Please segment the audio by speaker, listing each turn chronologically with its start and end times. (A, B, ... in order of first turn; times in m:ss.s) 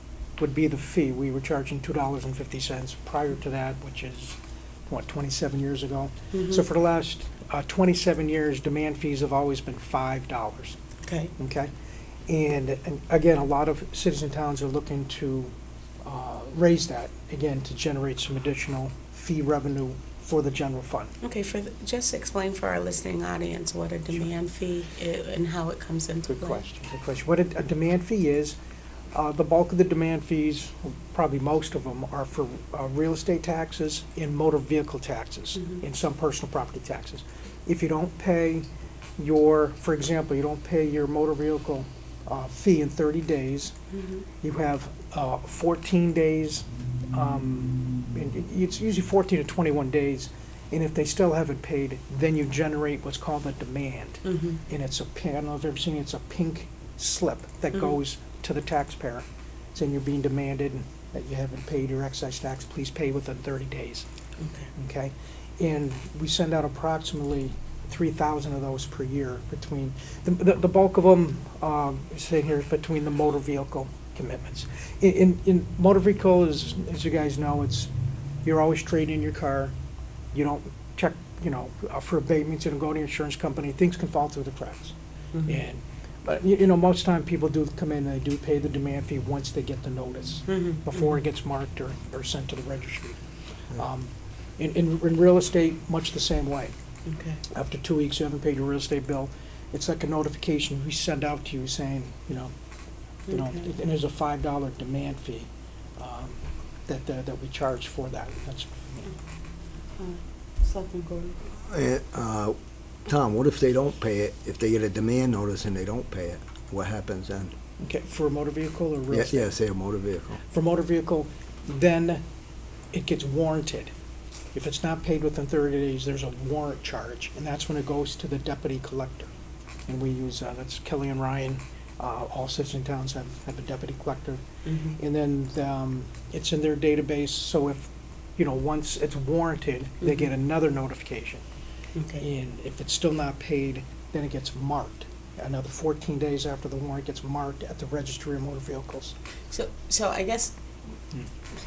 0:00.4-0:10.8 A
0:06.3-0:06.6 B
0:11.0-0:11.3 B
0:11.4-0:11.7 A
0:12.3-0:15.5 A
0:16.0-0:21.1 A
0:21.2-0:26.6 B
0:26.3-0:28.6 A
0:29.1-0:38.7 A
0:39.2-0:43.7 A
0:43.9-0:44.3 B
0:44.4-1:04.1 A
0:54.3-0:54.6 B
1:04.4-1:04.7 B
1:04.8-1:17.9 A
1:18.4-1:19.7 A
1:20.3-1:25.0 A
1:25.5-1:33.2 A
1:30.5-1:31.2 B
1:33.7-1:36.8 A
1:37.1-1:37.4 B
1:37.5-1:42.5 A
1:43.3-1:43.6 B
1:43.3-1:49.1 A
1:50.0-1:51.4 B
1:51.6-1:57.6 C
1:57.8-1:59.4 A
1:59.1-2:00.4 C
2:00.5-2:02.2 A
2:02.9-2:03.9 A
2:04.5-2:09.3 A
2:09.9-2:14.4 A
2:14.7-2:15.0 B
2:15.0-2:21.4 A
2:22.0-2:22.2 B
2:22.2-2:29.2 A
2:29.5-2:30.5 B